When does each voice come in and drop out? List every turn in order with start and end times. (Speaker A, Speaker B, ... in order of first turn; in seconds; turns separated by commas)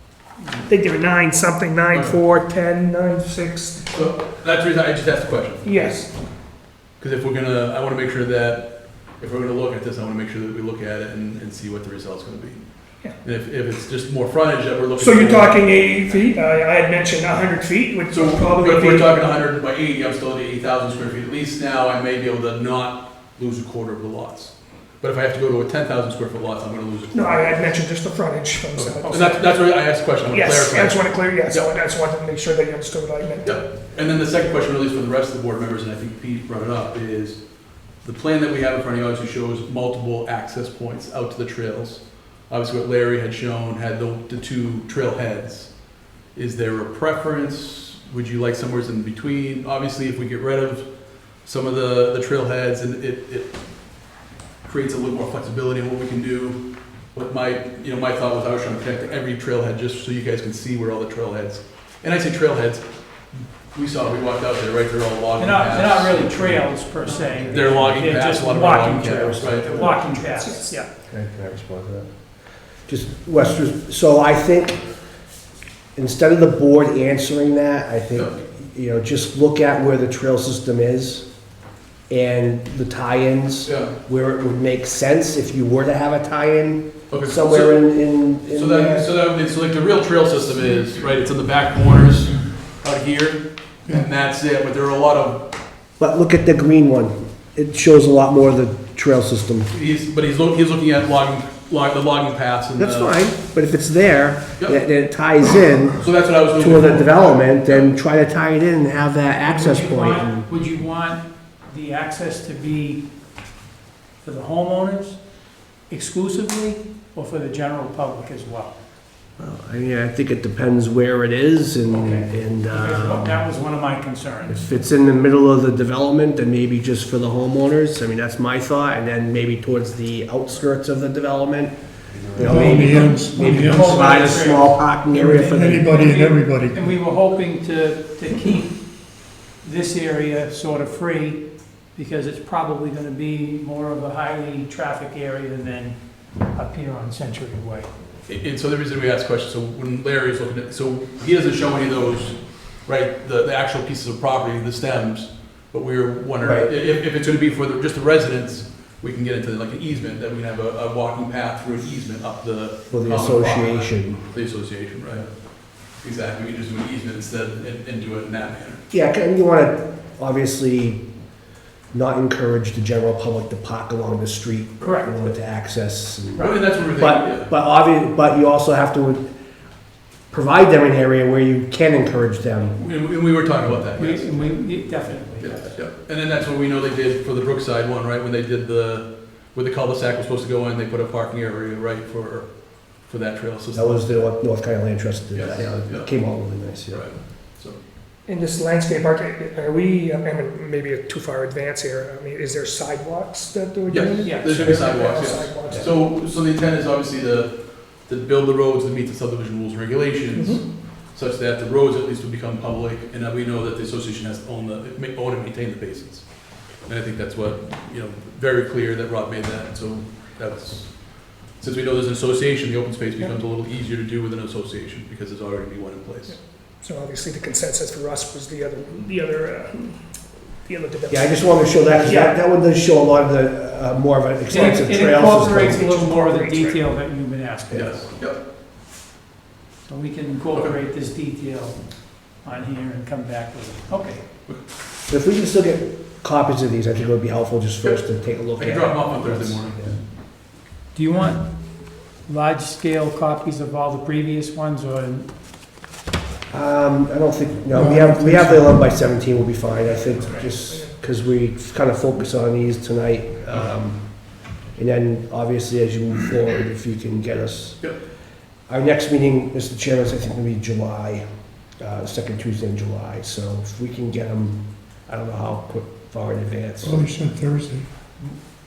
Speaker A: 0.7-3.9, Speaker B: 3.9-6.0, Speaker A: 5.6-6.1, Speaker B: 7.0-12.6, Speaker B: 13.2-15.6, Speaker A: 15.0-19.1, Speaker B: 18.1-27.7, Speaker A: 27.1-29.6, Speaker B: 28.7-31.7, Speaker A: 30.3-33.6, Speaker B: 33.4-37.4, Speaker B: 38.0-45.7, Speaker B: 46.3-50.9, Speaker B: 51.4-53.5, Speaker B: 54.6-56.6, Speaker B: 57.1-66.5, Speaker C: 65.4-70.9, Speaker D: 67.0-67.8, Speaker B: 67.5-69.9, Speaker D: 69.0-70.0, Speaker A: 70.3-70.7, Speaker D: 71.1-72.1, Speaker D: 72.9-74.8, Speaker D: 75.9-81.2, Speaker D: 82.1-89.1, Speaker B: 83.7-83.9, Speaker B: 87.1-95.5, Speaker D: 96.0-99.7, Speaker B: 99.7-103.1, Speaker D: 102.8-110.5, Speaker B: 106.0-107.9, Speaker C: 109.5-113.0, Speaker C: 114.2-115.2, Speaker C: 115.9-118.7, Speaker D: 119.4-123.4, Speaker C: 121.9-124.7, Speaker D: 124.5-131.7, Speaker D: 132.3-135.9, Speaker E: 132.3-134.2, Speaker C: 132.4-134.8, Speaker E: 135.1-136.8, Speaker C: 135.7-138.8, Speaker C: 139.6-141.4, Speaker C: 141.9-146.0, Speaker C: 146.5-147.9, Speaker B: 148.3-165.3, Speaker D: 156.4-156.7, Speaker D: 162.9-164.2, Speaker B: 165.9-168.8, Speaker D: 168.9-171.0, Speaker D: 171.9-179.3, Speaker C: 174.8-175.2, Speaker B: 176.3-177.5, Speaker D: 180.3-182.8, Speaker B: 182.8-184.4, Speaker C: 183.9-185.7, Speaker B: 185.4-194.0, Speaker D: 193.7-197.0, Speaker B: 195.3-196.1, Speaker B: 196.9-197.8, Speaker A: 198.3-206.0, Speaker B: 203.9-216.3, Speaker C: 204.2-204.7, Speaker A: 210.3-210.6, Speaker B: 216.8-226.3, Speaker A: 226.8-230.0, Speaker A: 230.7-232.4, Speaker D: 231.1-235.8, Speaker C: 234.5-238.1, Speaker A: 235.6-236.8, Speaker B: 237.7-238.4, Speaker C: 239.8-241.8, Speaker C: 242.4-244.2, Speaker D: 245.1-249.9, Speaker B: 248.6-250.0, Speaker C: 250.9-251.5, Speaker C: 252.2-255.3, Speaker D: 256.5-264.0, Speaker E: 257.7-258.8, Speaker D: 264.8-267.9, Speaker D: 268.7-271.2, Speaker D: 271.8-277.1, Speaker E: 276.8-277.9